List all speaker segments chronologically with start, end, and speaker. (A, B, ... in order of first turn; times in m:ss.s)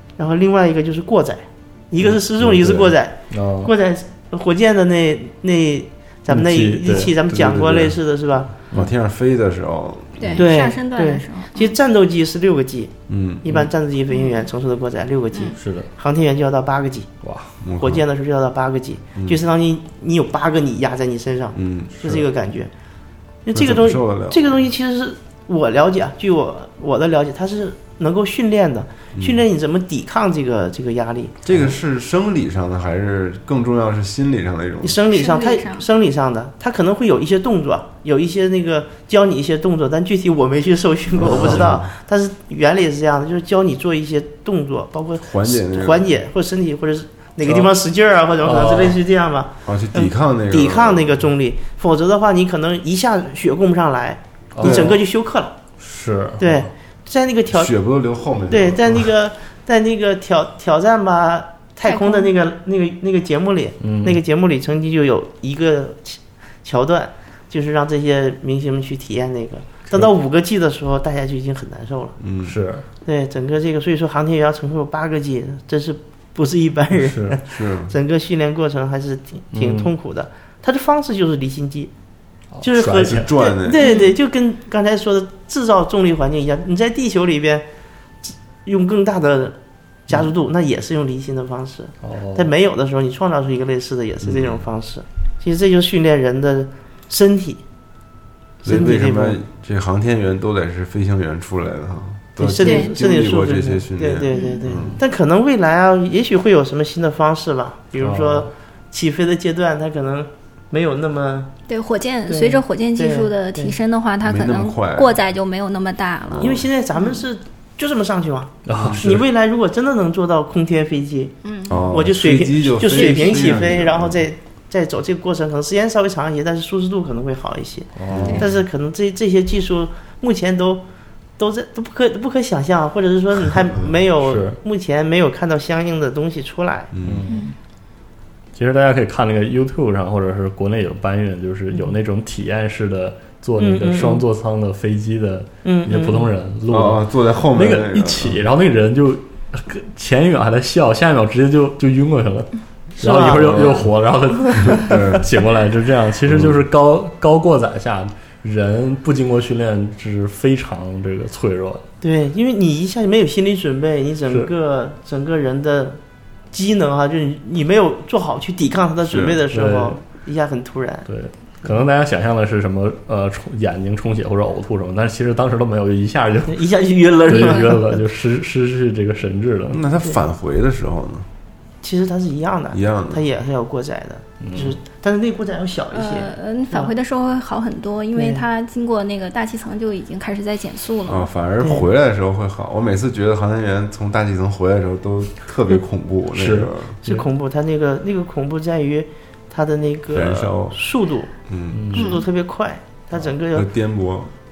0:00.2-0:08.5 A
0:02.0-0:03.0 B
0:03.3-0:03.7 C
0:06.3-0:07.2 C
0:07.3-0:08.0 B
0:08.7-0:10.5 B
0:10.2-0:11.8 D
0:10.4-0:17.1 A
0:13.1-0:13.4 B
0:14.1-0:14.5 D
0:15.6-0:15.9 C
0:17.2-0:17.6 C
0:17.6-0:18.0 B
0:17.8-0:22.7 A
0:19.2-0:19.4 B
0:21.6-0:22.2 B
0:23.5-0:31.4 A
0:23.5-0:24.6 B
0:29.2-0:29.4 B
0:31.4-0:35.0 B
0:34.8-0:55.6 A
0:35.1-0:35.9 D
0:41.1-0:41.9 B
0:41.2-0:41.6 C
0:45.2-0:46.1 B
0:47.4-0:47.7 C
0:48.4-0:49.0 C
0:49.6-0:51.2 B
0:54.5-0:55.0 C
0:54.6-0:54.9 B
0:55.8-0:56.7 C
0:56.4-0:57.7 A
0:57.5-0:59.1 B
0:58.5-1:12.2 A
1:01.8-1:02.3 D
1:03.8-1:04.2 C
1:12.2-1:12.6 B
1:12.4-1:12.9 C
1:13.0-1:21.9 A
1:16.9-1:17.4 C
1:17.5-1:17.9 B
1:19.5-1:19.9 C
1:22.5-1:23.3 C
1:22.6-1:27.6 A
1:23.1-1:24.0 B
1:23.8-1:24.1 D
1:28.2-1:29.6 A
1:30.1-1:37.6 A
1:32.0-1:32.5 C
1:34.2-1:34.6 B
1:38.6-1:39.4 A
1:38.6-1:45.0 B
1:42.4-1:51.5 A
1:42.6-1:42.9 D
1:44.3-1:44.6 D
1:48.0-1:48.5 C
1:51.7-1:57.2 D
1:52.3-1:53.8 A
1:54.2-1:55.2 B
1:56.3-1:56.6 B
1:56.4-2:10.8 A
1:58.6-1:59.2 C
1:58.7-1:59.0 B
2:01.4-2:01.9 D
2:01.7-2:04.2 B
2:02.8-2:03.6 D
2:08.0-2:08.5 C
2:08.1-2:08.5 B
2:08.2-2:08.4 D
2:11.4-2:16.9 A
2:14.2-2:14.6 C
2:16.9-2:17.3 B
2:17.0-2:17.5 C
2:17.3-2:17.5 D
2:18.5-2:41.9 C
2:23.6-2:24.2 A
2:25.6-2:26.3 A
2:26.7-2:28.4 B
2:33.0-2:33.8 A
2:33.4-2:33.9 B
2:34.6-2:35.3 B
2:36.3-2:36.6 B
2:42.0-2:46.0 A
2:46.5-2:51.1 A
2:49.1-2:49.4 B
2:49.5-2:50.0 C
2:51.1-2:56.6 C
2:56.5-2:58.0 A
2:57.3-2:59.8 C
2:59.7-3:01.3 B
3:01.8-3:06.9 A
3:02.7-3:03.2 B
3:04.4-3:04.8 C
3:05.9-3:11.3 D
3:08.1-3:08.4 A
3:11.1-3:17.0 B
3:16.3-3:17.2 C
3:17.0-3:21.3 A
3:20.1-3:20.8 B
3:21.5-3:22.0 B
3:21.7-3:22.2 C
3:21.9-3:23.7 A
3:21.9-3:22.2 D
3:23.5-3:24.3 B